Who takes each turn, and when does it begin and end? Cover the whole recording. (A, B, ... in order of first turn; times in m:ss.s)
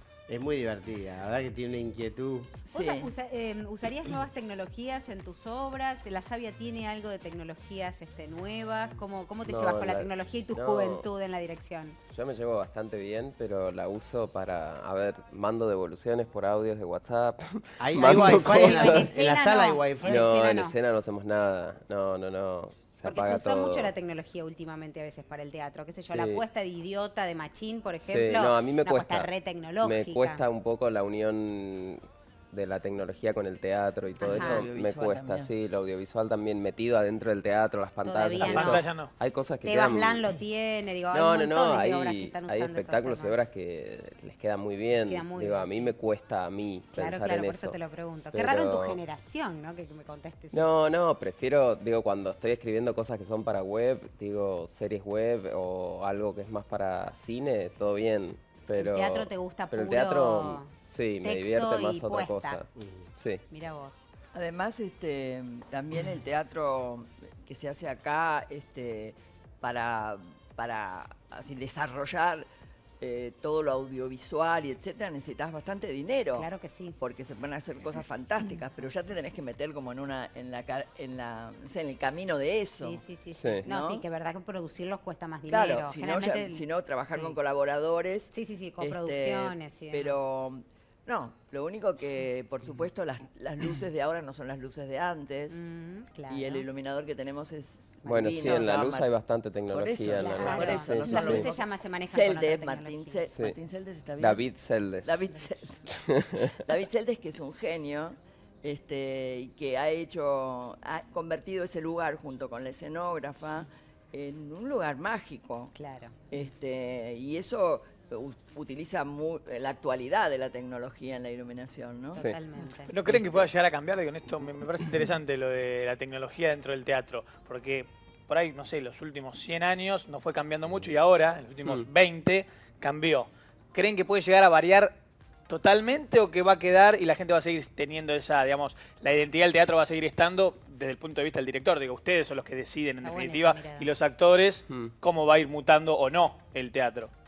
0:00.3-0:02.6 A
0:02.7-0:12.0 B
0:02.7-0:03.1 C
0:09.4-0:11.1 D
0:12.1-0:19.1 D
0:17.8-0:20.3 A
0:18.0-0:20.8 B
0:20.0-0:23.9 D
0:23.0-0:30.4 B
0:26.0-0:26.4 D
0:28.0-0:29.3 D
0:29.8-0:40.3 D
0:34.2-0:34.6 B
0:34.2-0:35.5 C
0:38.0-0:38.9 B
0:38.4-0:39.1 E
0:39.6-0:43.4 B
0:41.1-0:47.8 D
0:45.0-0:45.9 B
0:46.9-0:50.8 B
0:48.3-0:49.0 D
0:50.5-1:03.4 D
0:58.8-1:00.7 B
1:01.2-1:02.6 B
1:02.8-1:03.1 A
1:03.5-1:04.0 B
1:04.3-1:12.5 C
1:13.0-1:16.5 C
1:16.4-1:17.0 B
1:17.0-1:23.0 C
1:22.8-1:27.4 B
1:23.3-1:23.6 D
1:23.6-1:24.0 C
1:25.5-1:35.6 C
1:28.3-1:30.2 B
1:35.5-1:36.6 B
1:36.3-1:39.1 C
1:38.0-1:41.5 D
1:38.4-1:38.7 B
1:39.7-1:44.5 C
1:40.1-1:43.3 B
1:44.2-1:46.5 D
1:45.0-1:45.8 C
1:46.5-1:55.7 C
1:55.8-1:56.4 B
1:56.3-2:02.2 C
2:02.1-2:02.9 B
2:02.9-2:15.0 E
2:15.5-2:27.1 E
2:23.0-2:23.9 B